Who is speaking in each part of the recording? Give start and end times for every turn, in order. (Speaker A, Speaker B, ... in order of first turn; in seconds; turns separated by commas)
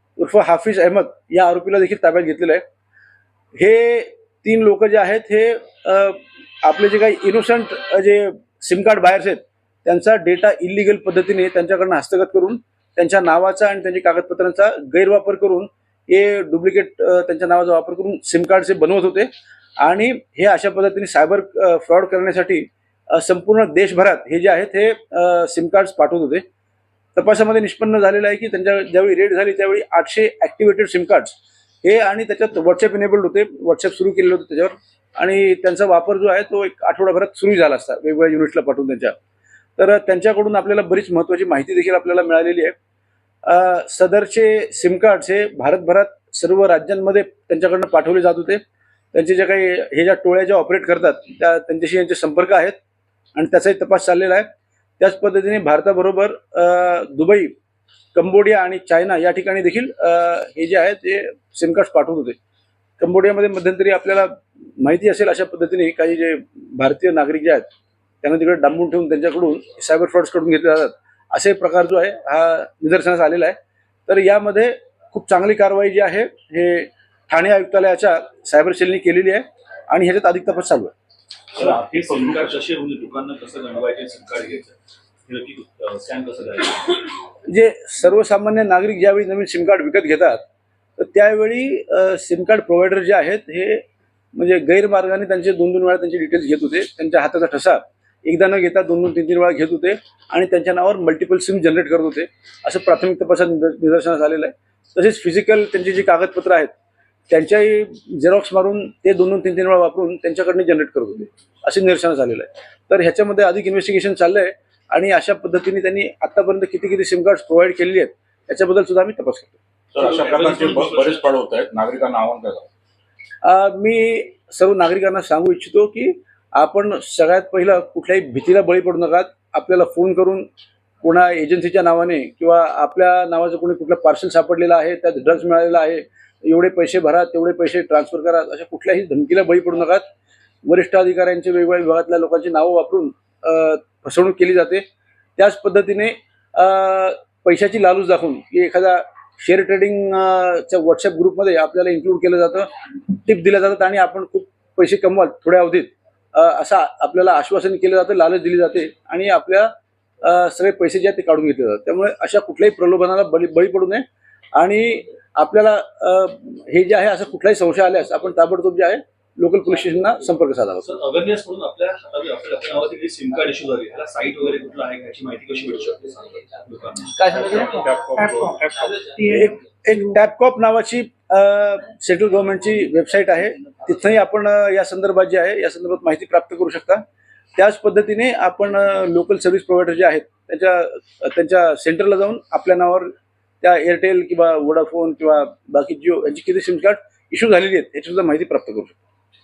Speaker A: 0.2-2.6, Speaker A: 3.6-19.3, Speaker A: 19.8-26.4, Speaker A: 27.1-39.1, Speaker A: 39.8-42.7, Speaker A: 43.4-48.6, Speaker A: 49.1-52.8, Speaker A: 53.3-54.5, Speaker A: 55.0-57.5, Speaker A: 58.1-62.4, Speaker A: 63.0-67.7, Speaker A: 68.2-80.9, Speaker B: 81.5-84.7, Speaker B: 85.3-87.1, Speaker A: 87.5-90.4, Speaker A: 91.0-106.7, Speaker A: 107.3-119.6, Speaker C: 119.9-122.7, Speaker B: 120.0-121.3, Speaker A: 123.4-130.5, Speaker A: 131.0-140.0, Speaker A: 140.6-144.8, Speaker A: 145.4-159.7, Speaker A: 160.2-170.9, Speaker B: 170.8-178.0, Speaker C: 177.4-179.0, Speaker B: 178.8-179.1, Speaker A: 179.2-187.0, Speaker A: 187.5-193.1, Speaker A: 193.6-199.0